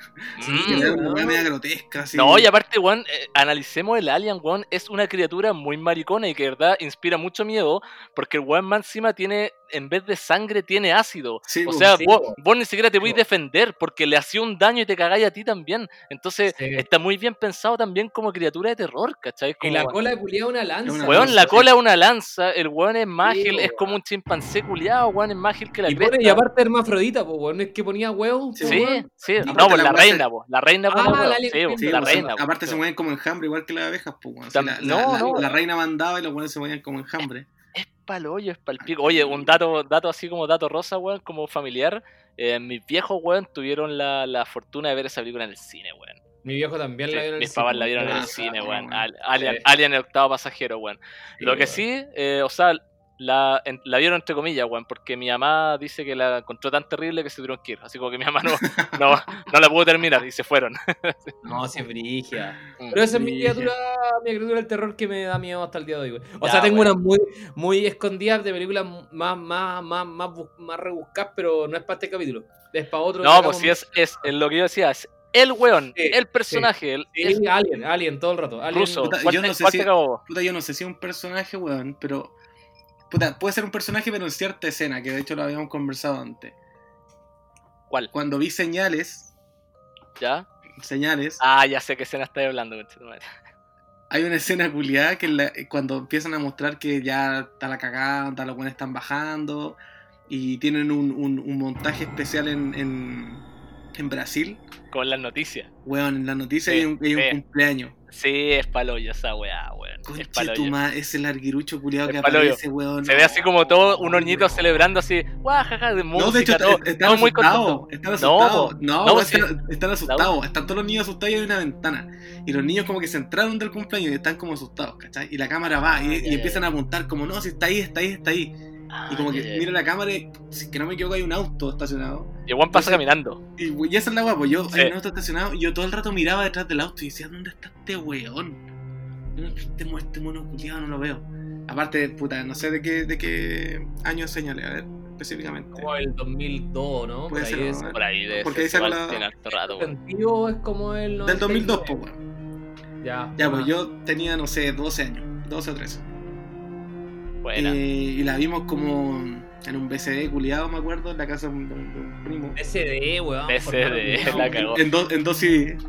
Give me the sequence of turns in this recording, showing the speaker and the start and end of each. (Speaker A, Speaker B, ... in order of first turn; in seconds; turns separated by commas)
Speaker A: 0.4-0.9, Speaker B: 0.5-1.5, Speaker C: 0.5-2.5, Speaker A: 2.1-19.9, Speaker C: 11.4-11.9, Speaker B: 11.9-12.3, Speaker B: 16.5-16.8, Speaker B: 19.6-21.6, Speaker C: 20.8-21.7, Speaker A: 21.1-26.4, Speaker B: 23.2-23.9, Speaker B: 25.9-29.8, Speaker C: 28.5-28.8, Speaker A: 28.6-32.8, Speaker C: 29.4-30.2, Speaker B: 30.9-32.2, Speaker C: 31.8-37.5, Speaker A: 34.5-35.4, Speaker B: 34.9-35.4, Speaker A: 37.7-46.2, Speaker C: 38.8-39.5, Speaker B: 46.4-48.6, Speaker A: 47.1-61.4, Speaker C: 48.0-49.0, Speaker B: 49.4-49.6, Speaker B: 51.4-51.8, Speaker C: 58.6-59.1, Speaker B: 61.4-73.8, Speaker C: 63.1-63.7, Speaker A: 66.4-66.9, Speaker A: 73.2-77.4, Speaker B: 76.0-79.1, Speaker A: 78.7-80.2, Speaker C: 79.0-82.3, Speaker C: 83.1-86.5, Speaker C: 88.1-89.3, Speaker A: 90.2-90.5, Speaker C: 90.8-91.4, Speaker A: 91.4-93.2, Speaker C: 94.1-104.6, Speaker A: 104.9-105.7, Speaker C: 105.8-107.9, Speaker A: 106.7-107.4, Speaker A: 108.1-110.7, Speaker C: 110.0-114.7, Speaker A: 112.0-119.5, Speaker C: 116.1-128.5, Speaker B: 125.9-126.5, Speaker A: 128.9-129.7, Speaker C: 129.1-133.0, Speaker A: 132.5-133.4, Speaker C: 133.6-138.6, Speaker C: 139.3-145.9, Speaker B: 145.7-147.9, Speaker C: 147.3-149.2, Speaker A: 147.9-149.9, Speaker B: 149.5-151.9, Speaker C: 151.2-152.2, Speaker B: 153.0-153.7, Speaker C: 153.4-156.0, Speaker A: 157.4-157.8, Speaker C: 157.5-162.6, Speaker B: 162.6-164.7, Speaker A: 163.5-164.8, Speaker C: 164.2-165.8